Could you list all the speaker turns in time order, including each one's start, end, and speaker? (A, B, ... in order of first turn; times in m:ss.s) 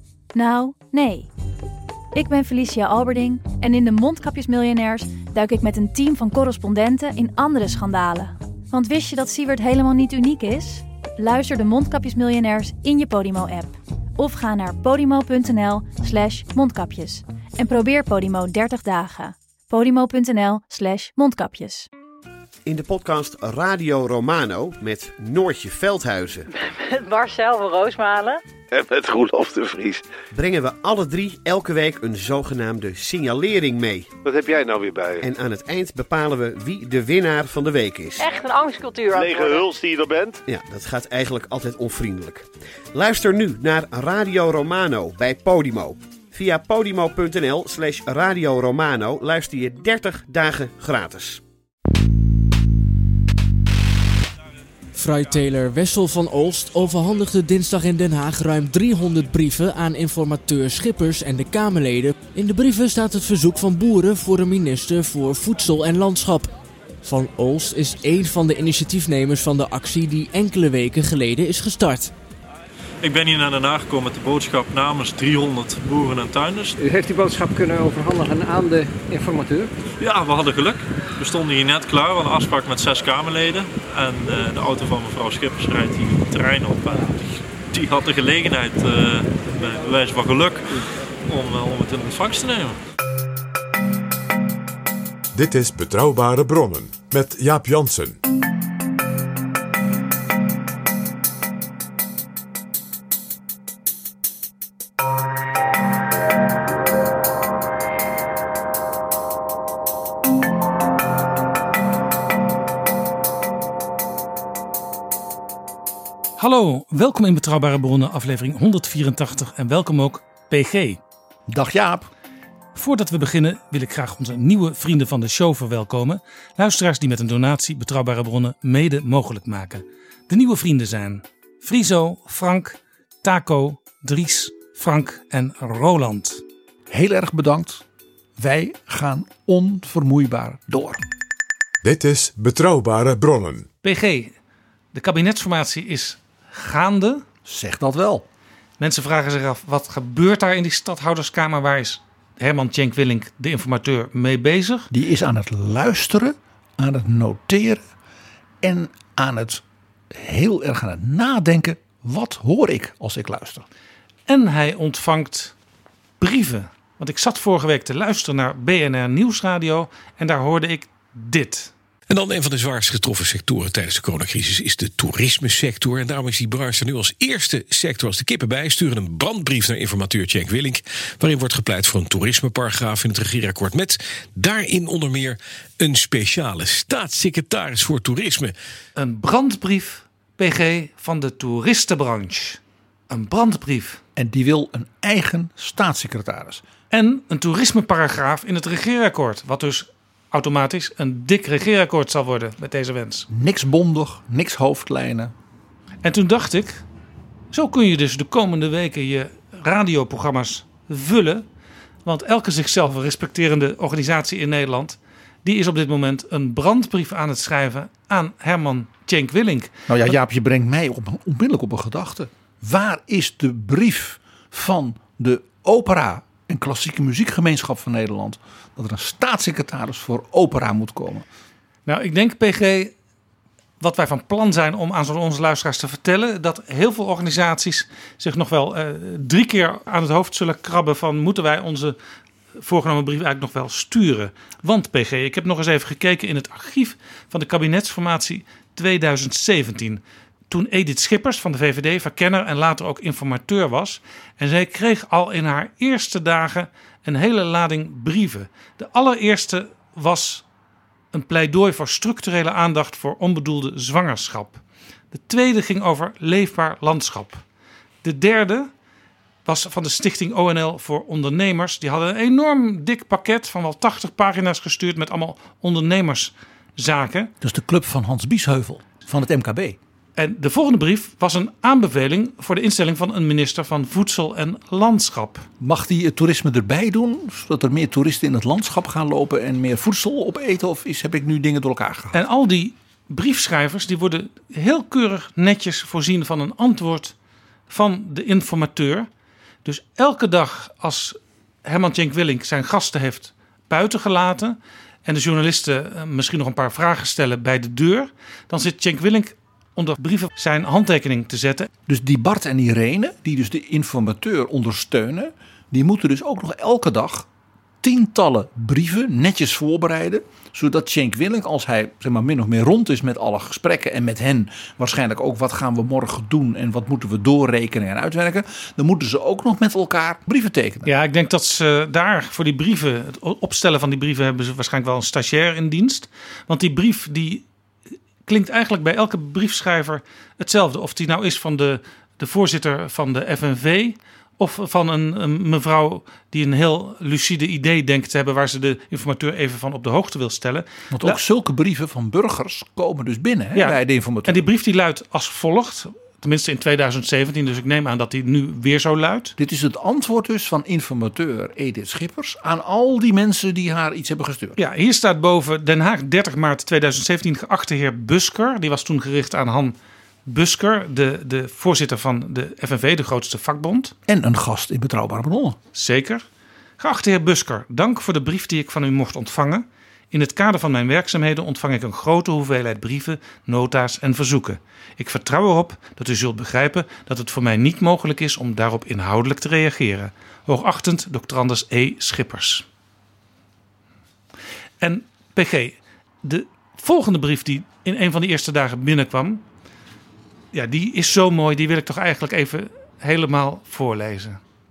0:00.3-0:01.3 A
0:02.1-0:21.9 A
0:22.7-0:26.4 B
0:26.5-0:28.4 C
0:28.7-0:30.0 D
0:30.3-0:34.2 B
0:34.3-0:35.2 D
0:35.2-0:38.3 B
0:38.2-0:39.8 C
0:39.3-0:40.4 D
0:40.4-0:51.4 B
0:54.9-1:06.5 E
1:07.0-1:12.1 E
1:13.0-1:16.8 F
1:16.8-1:19.7 G
1:20.0-1:32.8 F
1:35.3-1:38.2 H
1:56.4-2:01.0 I
2:01.5-2:02.1 J
2:02.7-2:16.4 I
2:16.9-2:17.8 J
2:18.4-2:21.0 J
2:21.8-2:23.7 H
2:23.8-2:24.3 I
2:24.9-2:27.2 I
2:27.4-2:28.2 J
2:28.8-2:34.9 I
2:34.9-2:37.8 J
2:38.6-2:43.6 J
2:44.3-2:45.5 I
2:46.2-2:51.7 I
2:52.1-3:08.5 K
3:09.0-3:14.0 I
3:14.2-3:16.6 J
3:16.9-3:23.3 I
3:23.3-3:25.3 J
3:26.0-3:26.8 I
3:27.5-3:31.4 I
3:32.0-3:39.7 I
3:39.9-3:51.2 J
3:51.8-3:52.9 I
3:53.8-4:02.0 I
4:02.6-4:20.4 I
4:21.1-4:24.6 I
4:25.1-4:27.4 I
4:28.0-4:28.7 I
4:29.4-4:37.3 I
4:37.4-4:39.8 J
4:40.2-4:45.5 I
4:45.6-4:52.2 J
4:52.1-4:57.2 I
4:57.7-4:59.1 I
4:59.6-5:11.7 I
5:11.9-5:17.3 J
5:17.8-5:30.9 J
5:30.9-5:37.5 I
5:38.2-5:51.2 I
5:50.9-5:54.5 J
5:53.6-5:59.4 I
5:59.4-6:04.6 J
6:04.6-6:09.8 I
6:10.2-6:13.9 I
6:14.1-6:15.6 J
6:15.7-6:16.2 I
6:16.8-6:32.6 I
6:34.8-6:39.4 I
6:40.5-6:44.4 I